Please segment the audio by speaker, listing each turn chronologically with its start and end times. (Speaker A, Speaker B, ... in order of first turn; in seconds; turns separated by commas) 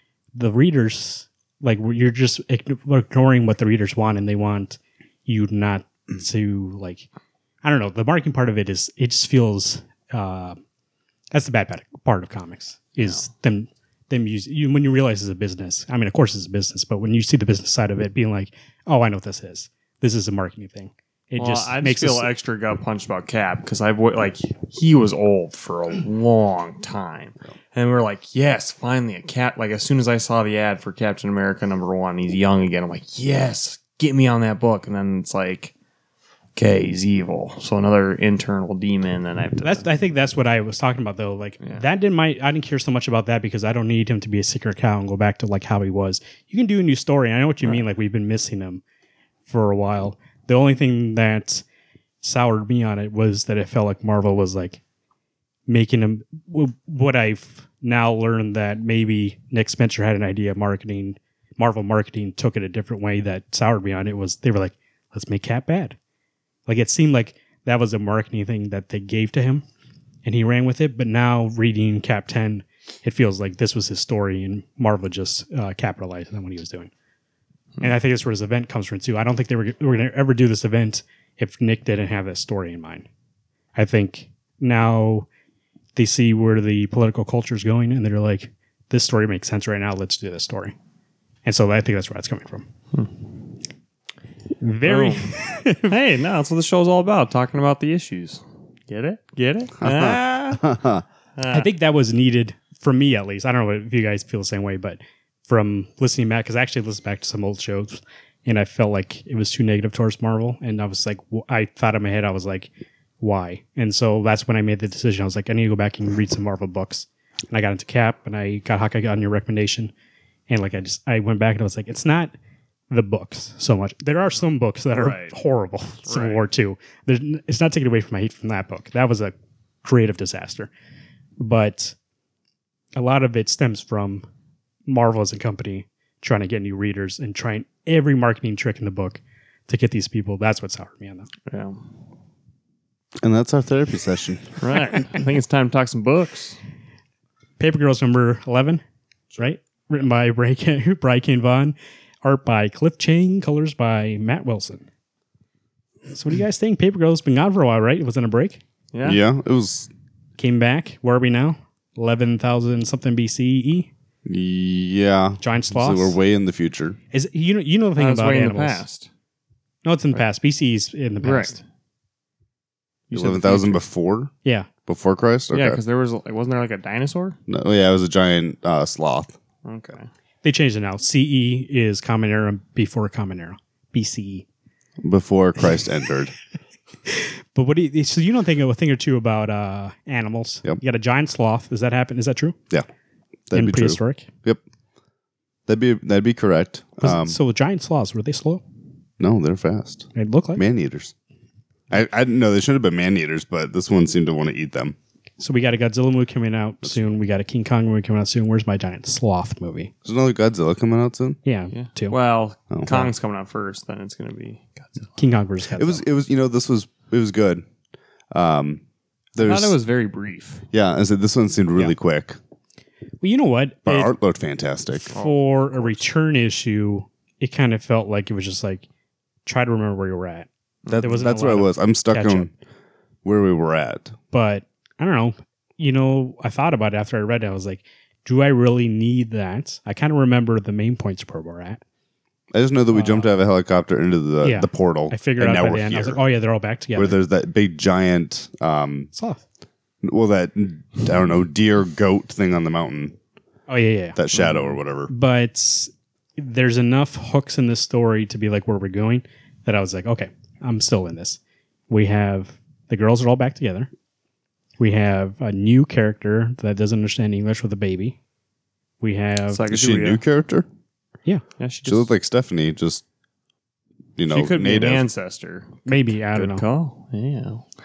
Speaker A: 0.3-7.1, Speaker A: 7.6-10.6, Speaker A: 11.3-22.3, Speaker B: 21.4-35.7, Speaker B: 36.5-39.9, Speaker A: 39.6-48.8, Speaker A: 49.5-51.6, Speaker A: 52.2-54.8, Speaker A: 55.7-66.0, Speaker A: 66.7-69.6, Speaker A: 70.2-76.9, Speaker A: 77.8-83.1, Speaker A: 83.7-85.3, Speaker A: 85.9-90.7, Speaker A: 91.4-92.7, Speaker A: 94.6-96.0, Speaker B: 94.8-95.3, Speaker B: 95.9-100.7, Speaker C: 99.8-101.0, Speaker B: 101.3-101.7, Speaker A: 101.5-119.9, Speaker A: 120.5-122.3, Speaker A: 122.9-130.7, Speaker B: 124.9-125.3, Speaker B: 126.0-126.4, Speaker A: 131.4-131.9, Speaker A: 132.9-134.2, Speaker A: 134.8-141.3, Speaker B: 141.5-141.8, Speaker C: 143.2-144.7, Speaker B: 144.6-146.6, Speaker A: 147.6-148.8, Speaker A: 149.3-154.8, Speaker A: 156.1-158.6, Speaker B: 158.9-159.2, Speaker C: 159.0-159.9, Speaker A: 160.4-163.9, Speaker C: 164.2-167.0, Speaker A: 165.4-166.2, Speaker A: 167.1-168.8, Speaker B: 167.9-169.1, Speaker A: 169.8-171.6, Speaker B: 171.2-171.6, Speaker B: 173.1-173.8, Speaker C: 173.1-174.3, Speaker A: 174.4-174.7, Speaker C: 174.8-175.8, Speaker B: 175.5-177.4, Speaker C: 177.5-179.3, Speaker B: 179.6-180.1, Speaker A: 180.4-184.4, Speaker C: 185.0-186.3, Speaker A: 187.1-192.6, Speaker C: 193.5-194.6, Speaker A: 193.5-194.3, Speaker C: 195.7-197.4, Speaker A: 197.0-198.6, Speaker C: 199.2-201.1, Speaker A: 200.1-200.6, Speaker C: 201.9-204.9, Speaker A: 205.4-209.9, Speaker C: 210.0-211.4, Speaker A: 211.4-212.2, Speaker B: 211.7-215.1, Speaker C: 212.7-213.1, Speaker A: 215.2-216.0, Speaker C: 215.8-217.6, Speaker C: 218.3-218.8, Speaker C: 219.3-219.8, Speaker B: 219.4-220.6, Speaker C: 220.7-222.4, Speaker A: 223.2-224.1, Speaker C: 223.8-225.1, Speaker A: 225.0-228.8, Speaker B: 225.1-226.0, Speaker A: 229.4-230.5, Speaker B: 230.8-231.1, Speaker C: 230.9-232.5, Speaker A: 231.0-232.5, Speaker C: 233.2-234.2, Speaker A: 234.3-241.8, Speaker C: 242.5-246.2, Speaker A: 242.9-243.3, Speaker A: 244.4-247.2, Speaker C: 246.9-249.1, Speaker A: 249.1-249.4, Speaker C: 250.0-253.2, Speaker A: 253.7-254.2, Speaker C: 254.2-255.1, Speaker A: 255.1-263.9, Speaker A: 264.8-268.2, Speaker A: 269.0-269.6, Speaker B: 269.5-270.2, Speaker C: 269.7-270.6, Speaker B: 271.6-272.1, Speaker C: 271.9-273.0, Speaker C: 274.2-275.1, Speaker B: 274.3-277.6, Speaker A: 275.9-276.6